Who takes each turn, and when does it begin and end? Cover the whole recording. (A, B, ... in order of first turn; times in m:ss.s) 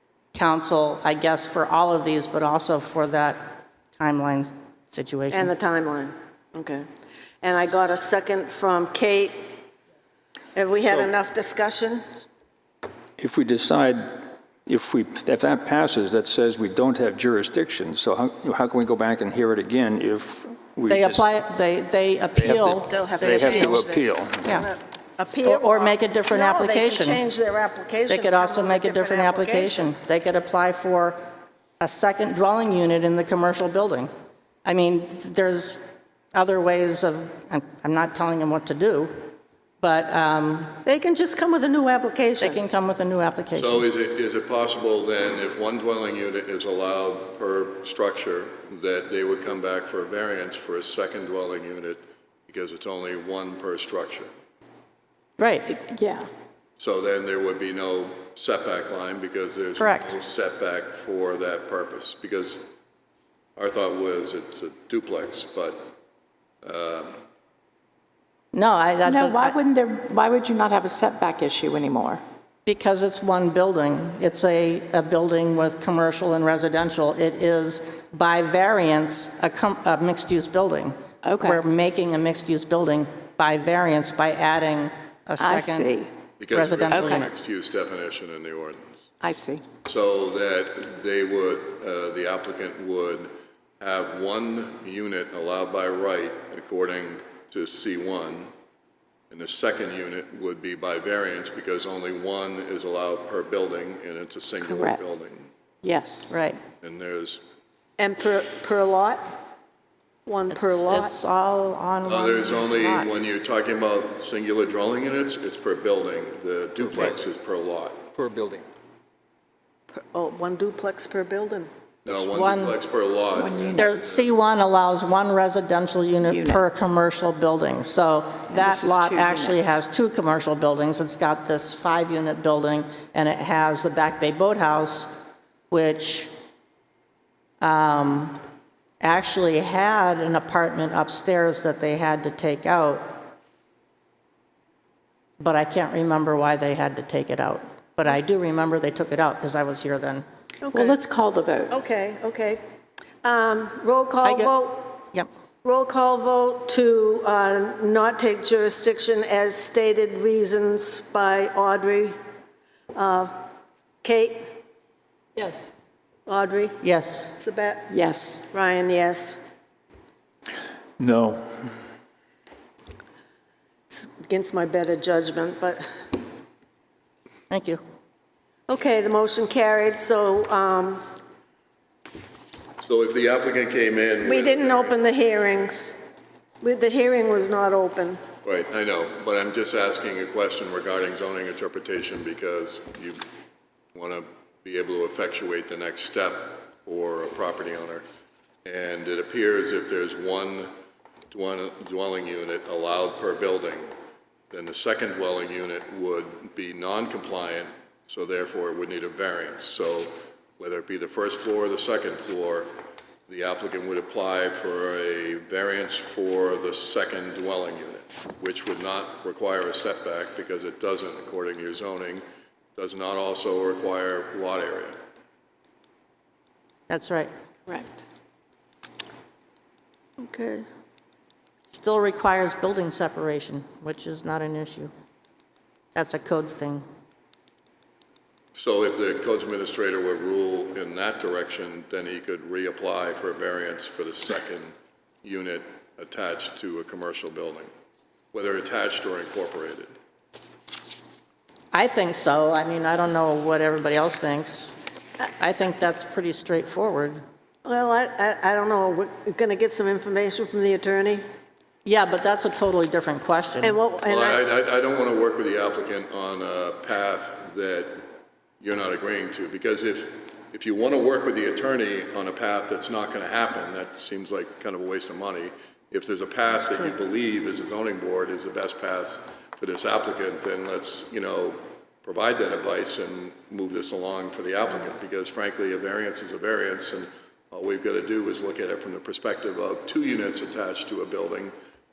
0:00.3-0:05.5 A
0:05.3-0:06.9 B
0:07.4-0:09.5 B
0:10.6-0:12.0 B
0:13.2-0:21.3 C
0:20.9-0:23.9 A
0:22.4-0:24.5 C
0:22.7-0:29.9 B
0:24.4-0:24.7 A
0:25.4-0:27.2 A
0:28.1-0:31.2 A
0:31.8-0:34.1 A
0:34.6-0:40.8 A
0:40.8-0:42.6 B
0:42.4-0:43.9 A
0:43.6-0:54.3 D
0:55.4-0:55.7 A
0:55.7-0:56.3 E
0:56.8-1:02.7 D
0:59.8-1:00.2 A
1:03.6-1:05.9 D
1:06.6-1:07.1 D
1:08.5-1:09.6 A
1:09.0-1:12.2 E
1:12.7-1:25.9 A
1:21.2-1:21.6 E
1:25.4-1:26.1 E
1:26.4-1:29.0 D
1:26.5-1:27.3 A
1:26.9-1:27.2 E
1:29.2-1:29.6 E
1:29.8-1:38.5 D
1:39.3-1:45.5 D
1:44.6-1:45.0 E
1:45.8-1:46.4 E
1:46.3-1:46.6 A
1:46.8-1:47.4 D
1:48.0-1:49.2 B
1:50.2-1:51.1 B
1:50.5-1:53.1 A
1:52.0-1:58.0 D
1:58.2-1:58.6 C
1:59.9-2:01.7 B
2:02.0-2:04.2 D
2:02.1-2:02.8 A
2:03.3-2:03.9 E
2:03.7-2:16.3 A
2:06.2-2:06.6 E
2:08.5-2:09.8 E
2:17.6-2:18.4 A
2:19.0-2:23.2 A
2:25.4-2:30.3 A
2:30.6-2:31.0 B
2:30.7-2:31.8 E
2:31.7-2:32.6 B
2:33.2-2:35.0 B
2:34.2-2:34.5 A
2:35.6-2:42.2 B
2:42.9-2:43.3 B
2:44.0-2:44.5 B
2:45.4-2:45.7 E
2:46.3-2:46.8 B
2:46.8-2:47.3 A
2:47.4-2:47.9 B
2:47.9-2:48.5 E
2:48.5-2:49.4 B
2:51.0-2:51.6 C
2:53.9-2:55.9 B
2:57.5-2:57.8 A
2:58.7-3:01.0 B
3:02.8-3:05.0 D
3:04.2-3:06.0 B
3:06.6-3:08.2 B
3:08.4-3:13.2 D
3:13.9-3:18.0 D
3:18.6-3:20.7 D
3:21.3-3:23.9 D
3:24.5-3:32.7 D
3:33.3-3:42.2 D
3:42.8-3:45.0 D
3:46.9-3:47.3 A
3:47.7-3:48.0 E
3:50.2-3:50.7 B
3:51.7-3:54.9 A
3:55.9-3:56.9 A
3:58.6-4:04.7 D
4:05.2-4:07.7 D
4:08.3-4:09.9 D
4:11.7-4:14.8 A
4:15.4-4:17.2 A
4:17.6-4:21.2 B
4:21.8-4:23.8 A
4:23.6-4:24.4 B
4:24.1-4:28.0 D
4:28.6-4:51.5 D